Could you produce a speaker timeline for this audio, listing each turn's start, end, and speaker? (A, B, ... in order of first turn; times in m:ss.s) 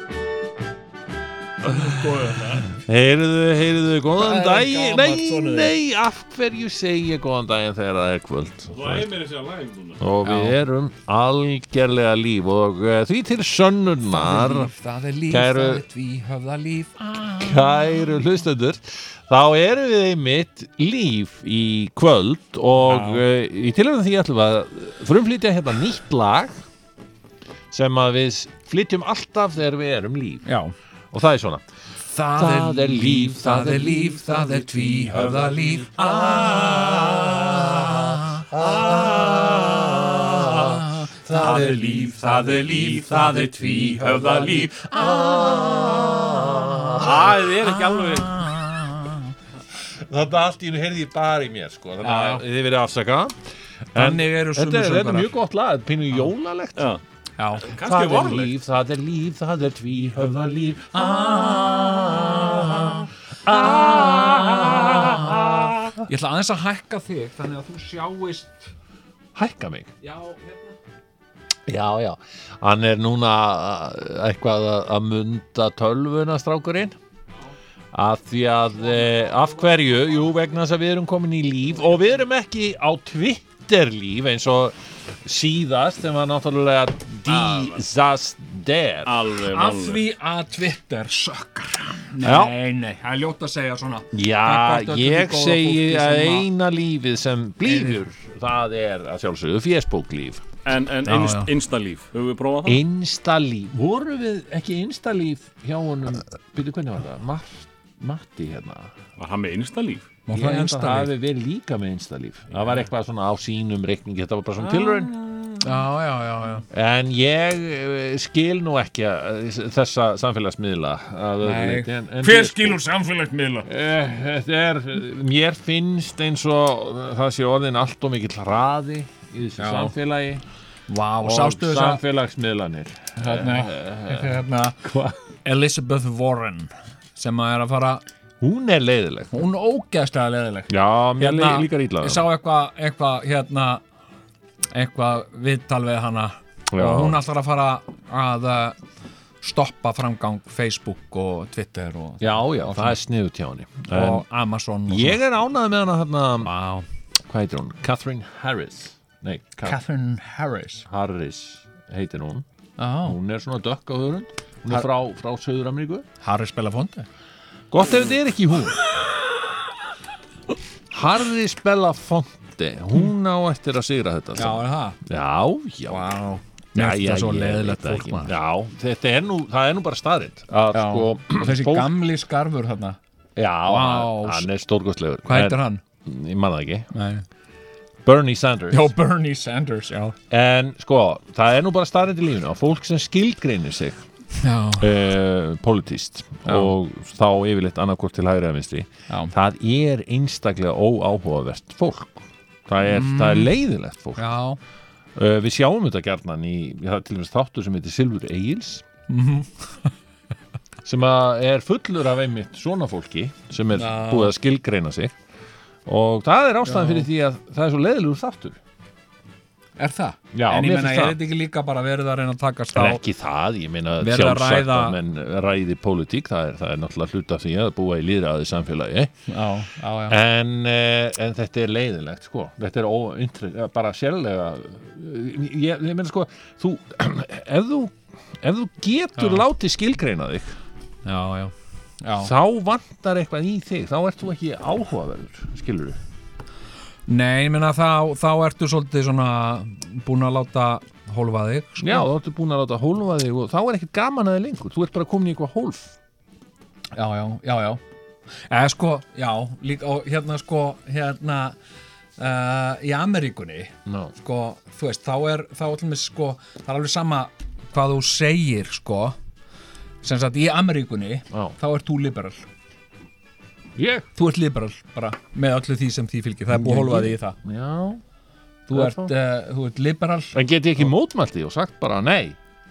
0:01.6-0:02.7 A
0:02.7-0:09.1 B
0:04.2-0:05.7 A
0:08.7-0:10.0 C
0:10.0-0:14.7 B
0:10.2-0:10.6 A
0:14.1-0:18.2 A
0:15.3-0:15.8 B
0:17.4-0:26.6 B
0:22.8-0:23.2 A
0:27.7-0:30.5 B
0:30.4-0:30.7 A
0:31.1-0:31.6 B
0:32.0-0:38.4 A
0:32.3-0:47.5 B
0:40.4-0:41.8 A
0:42.5-0:46.9 A
0:47.0-0:48.3 C
0:47.6-0:49.2 A
0:49.7-0:53.4 B
0:52.0-0:52.4 A
0:53.9-0:56.9 B
0:53.9-0:55.3 A
0:56.8-0:57.0 C
0:57.4-0:57.7 A
0:57.6-0:58.5 C
0:57.7-1:06.0 B
1:00.9-1:02.9 A
1:03.4-1:08.7 A
1:09.3-1:09.9 B
1:10.0-1:10.7 A
1:11.7-1:17.0 B
1:17.9-1:29.2 B
1:27.3-1:27.7 A
1:29.0-1:30.0 C
1:29.5-1:36.5 A
1:32.2-1:32.5 B
1:34.1-1:40.4 B
1:37.6-1:38.0 A
1:40.6-1:42.8 C
1:41.0-1:41.5 A
1:42.6-1:48.9 B
1:49.2-1:50.1 C
1:50.3-1:51.1 A
1:50.3-1:55.8 B
1:55.6-1:56.6 A
1:56.7-2:02.8 B
2:01.4-2:03.6 A
2:03.6-2:10.4 B
2:09.6-2:09.9 A
2:10.9-2:12.0 A
2:11.2-2:15.2 B
2:13.2-2:14.8 A
2:15.4-2:18.0 A
2:18.4-2:19.3 B
2:19.3-2:23.8 A
2:20.7-2:22.2 B
2:24.7-2:28.8 A
2:26.7-2:27.2 B
2:29.4-2:33.0 A
2:32.2-2:34.2 B
2:33.9-2:35.2 A
2:34.9-2:36.5 B
2:36.4-2:36.8 A
2:37.3-2:39.8 B
2:39.6-2:40.8 A
2:40.8-2:42.4 B
2:42.8-2:43.2 A
2:43.0-2:46.0 B
2:46.2-2:47.0 A
2:47.7-2:48.8 B
2:50.9-2:56.1 B
2:54.3-2:55.0 A
2:55.9-2:58.4 A
2:56.7-3:02.0 B
3:00.7-3:03.0 A
3:03.4-3:06.9 B
3:03.6-3:04.5 A
3:05.2-3:05.8 A
3:06.9-3:07.2 A
3:08.0-3:08.9 B
3:08.7-3:10.2 A
3:10.3-3:14.0 B
3:14.3-3:14.9 A
3:14.8-3:24.2 B
3:16.4-3:16.7 A
3:22.8-3:23.5 A
3:24.2-3:24.6 A
3:25.2-3:28.8 B
3:29.1-3:29.9 A
3:30.8-3:35.2 B
3:33.7-3:34.3 A
3:35.8-3:38.6 B
3:36.6-3:37.1 A
3:39.8-3:43.0 A
3:40.3-3:41.2 B
3:42.7-3:49.1 B
3:44.0-3:45.0 A
3:49.3-3:50.2 A
3:50.1-4:00.6 B
3:59.2-3:59.4 A
4:01.0-4:02.3 A
4:02.2-4:06.0 B
4:07.1-4:12.1 A
4:11.8-4:15.9 B
4:16.9-4:17.8 A
4:18.5-4:21.6 A
4:22.2-4:29.2 A
4:23.8-4:24.1 B
4:30.0-4:32.4 A
4:31.3-4:31.6 B
4:33.8-4:34.0 B
4:34.1-4:37.4 A
4:36.5-4:38.0 B
4:38.7-4:40.3 A
4:38.7-4:39.1 B
4:40.3-4:42.4 B